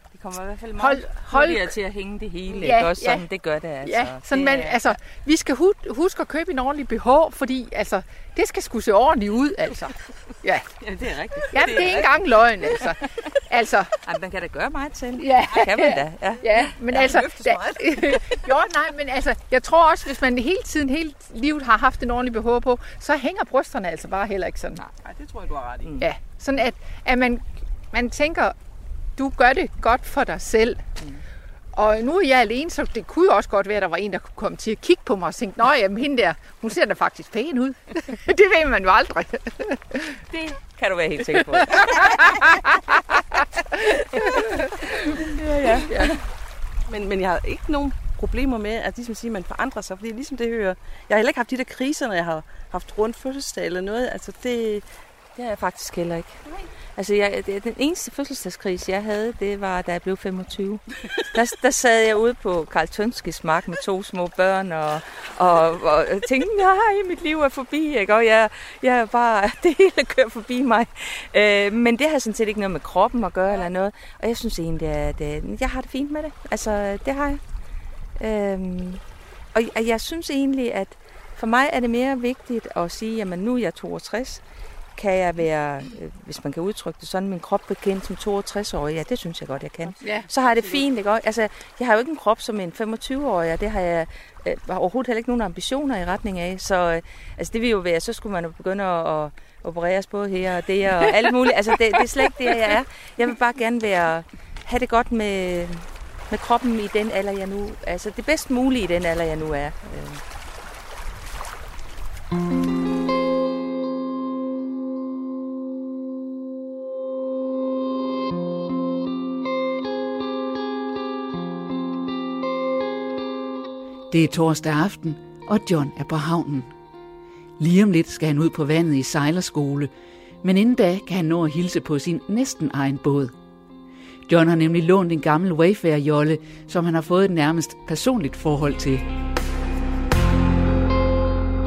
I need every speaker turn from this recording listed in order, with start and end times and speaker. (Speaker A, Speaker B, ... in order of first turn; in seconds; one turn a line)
Speaker A: 0.1-4.8
Speaker B: 0.8-1.7
Speaker B: 2.6-3.2
Speaker B: 3.8-10.6
Speaker A: 10.8-12.1
Speaker B: 11.5-13.9
Speaker A: 14.0-18.2
Speaker B: 15.2-24.8
Speaker C: 24.8-26.0
Speaker B: 26.0-28.6
Speaker B: 29.2-30.9
Speaker B: 31.7-40.1
Speaker A: 40.3-42.6
Speaker B: 41.8-42.5
Speaker A: 45.1-46.1
Speaker C: 45.7-46.1
Speaker C: 46.9-54.9
Speaker A: 55.4-56.4
Speaker A: 57.0-77.4
Speaker A: 78.2-79.0
Speaker A: 79.5-84.4
Speaker A: 85.0-110.2
Speaker B: 90.0-90.3
Speaker D: 124.1-126.7
Speaker D: 127.6-129.9
Speaker D: 130.4-133.3
Speaker D: 134.3-139.0